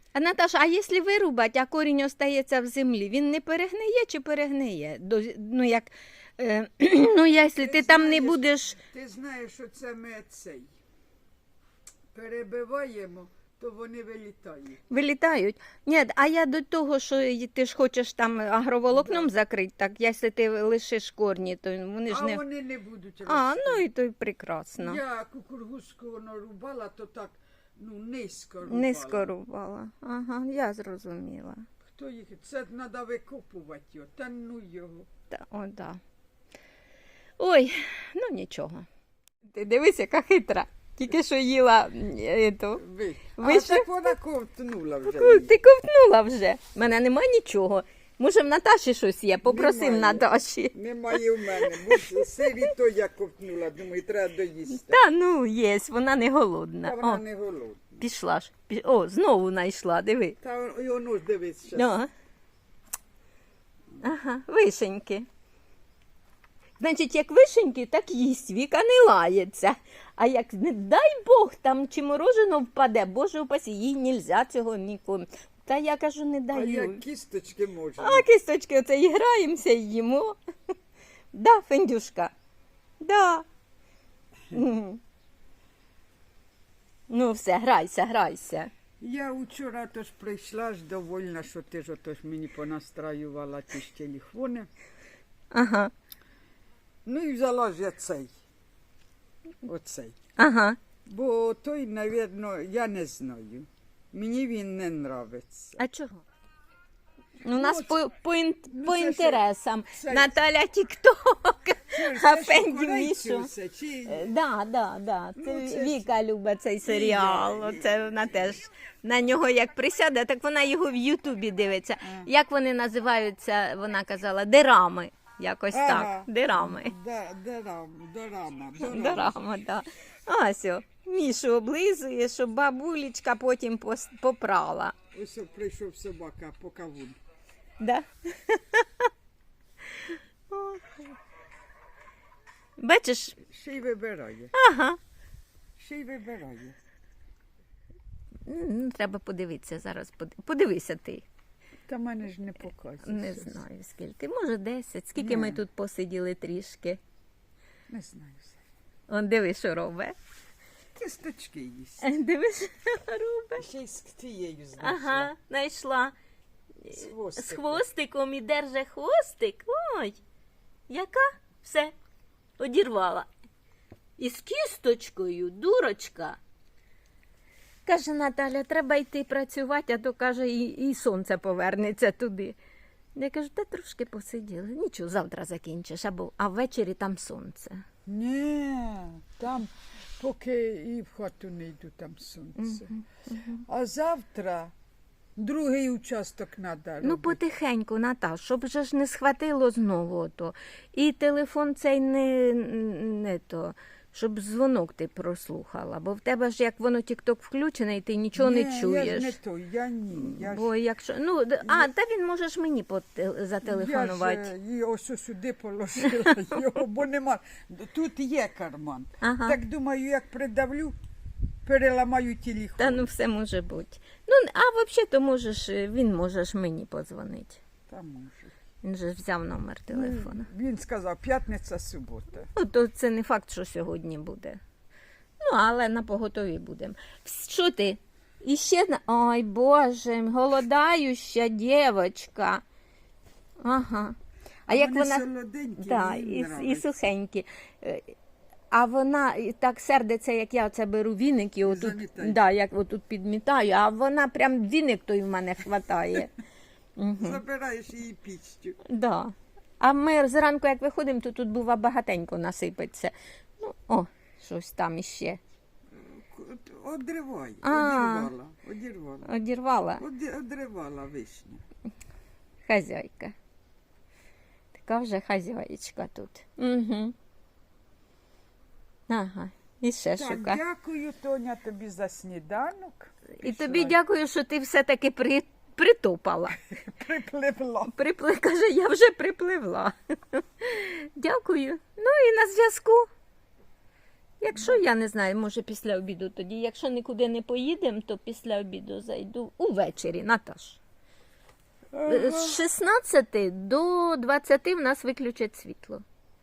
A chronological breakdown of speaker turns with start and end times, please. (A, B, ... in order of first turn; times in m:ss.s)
0:00.1-0:08.8 A
0:07.6-0:10.7 B
0:12.1-0:14.8 B
0:14.9-0:22.4 A
0:18.9-0:19.3 B
0:22.1-0:23.9 B
0:23.2-0:25.0 A
0:24.8-0:29.3 B
0:28.6-0:31.6 A
0:31.8-0:35.1 B
0:35.3-0:36.0 A
0:37.4-0:38.9 A
0:39.5-0:42.8 A
0:42.8-0:45.5 B
0:43.4-0:43.9 A
0:45.0-0:52.5 A
0:49.4-0:55.0 B
0:54.7-0:57.2 A
0:56.8-0:58.0 B
0:58.0-1:00.4 A
1:00.4-1:01.9 B
1:01.7-1:02.1 A
1:04.0-1:05.3 A
1:06.8-1:17.0 A
1:16.5-1:18.2 B
1:18.0-1:20.4 A
1:21.3-1:22.3 A
1:23.0-1:23.4 A
1:24.5-1:25.0 A
1:27.1-1:28.7 A
1:29.0-1:34.7 B
1:35.5-1:35.9 A
1:37.0-1:38.3 B
1:39.6-1:40.2 B
1:40.4-1:40.8 A
1:41.0-1:45.8 B
1:45.8-1:46.2 A
1:47.4-1:53.5 A
1:47.5-1:48.0 B
1:48.7-1:50.4 B
1:51.9-1:54.3 B
1:54.0-2:06.9 A
1:55.4-1:56.1 B
1:56.8-1:58.5 B
2:02.0-2:02.3 B
2:05.7-2:09.4 B
2:08.8-2:14.9 A
2:15.1-2:17.2 B
2:17.8-2:19.0 A
2:19.9-2:21.0 A
2:22.8-2:23.4 A
2:23.4-2:24.5 B
2:24.5-2:25.0 A
2:25.8-2:26.8 B
2:28.4-2:31.2 A
2:31.9-2:33.6 B
2:33.0-2:37.0 A
2:35.2-2:35.6 B
2:37.9-2:38.6 B
2:39.1-2:40.1 A
2:41.0-2:42.1 B
2:42.0-2:43.6 A
2:43.6-2:45.3 B
2:44.8-2:46.1 A
2:46.8-2:50.2 A
2:46.9-2:47.8 B
2:50.9-2:51.9 A
2:52.6-2:53.3 A
2:54.2-2:56.4 A
2:57.8-3:02.6 A
3:03.1-3:07.8 A
3:08.0-3:12.9 B
3:12.6-3:13.6 A
3:13.6-3:14.7 B
3:15.4-3:17.4 B
3:17.0-3:29.4 A
3:28.3-3:30.7 B
3:30.1-3:34.5 A
3:31.6-3:31.9 B
3:33.6-3:41.0 B
3:39.2-3:39.6 A
3:41.6-3:43.1 B
3:42.8-3:47.6 A
3:47.9-3:48.6 B
3:48.8-3:50.5 A
3:49.9-3:52.5 B
3:52.5-3:54.6 A
3:55.4-4:02.6 A
4:03.6-4:04.1 A
4:04.7-4:05.2 A
4:04.7-4:07.0 B
4:05.8-4:08.1 A
4:08.7-4:16.3 A
4:11.6-4:12.4 B
4:17.0-4:17.4 A
4:17.2-4:18.8 B
4:18.9-4:25.4 A
4:25.9-4:29.3 B
4:27.6-4:28.3 A
4:29.2-4:30.0 A
4:30.0-4:31.6 B
4:32.6-4:33.3 A
4:34.8-4:37.1 A
4:39.1-4:40.6 A
4:40.2-4:44.0 B
4:43.4-4:46.6 A
4:46.7-4:47.9 B
4:47.9-4:53.1 A
4:54.4-5:00.8 A
4:54.5-4:54.8 B
5:01.9-5:02.6 B
5:02.0-5:06.0 A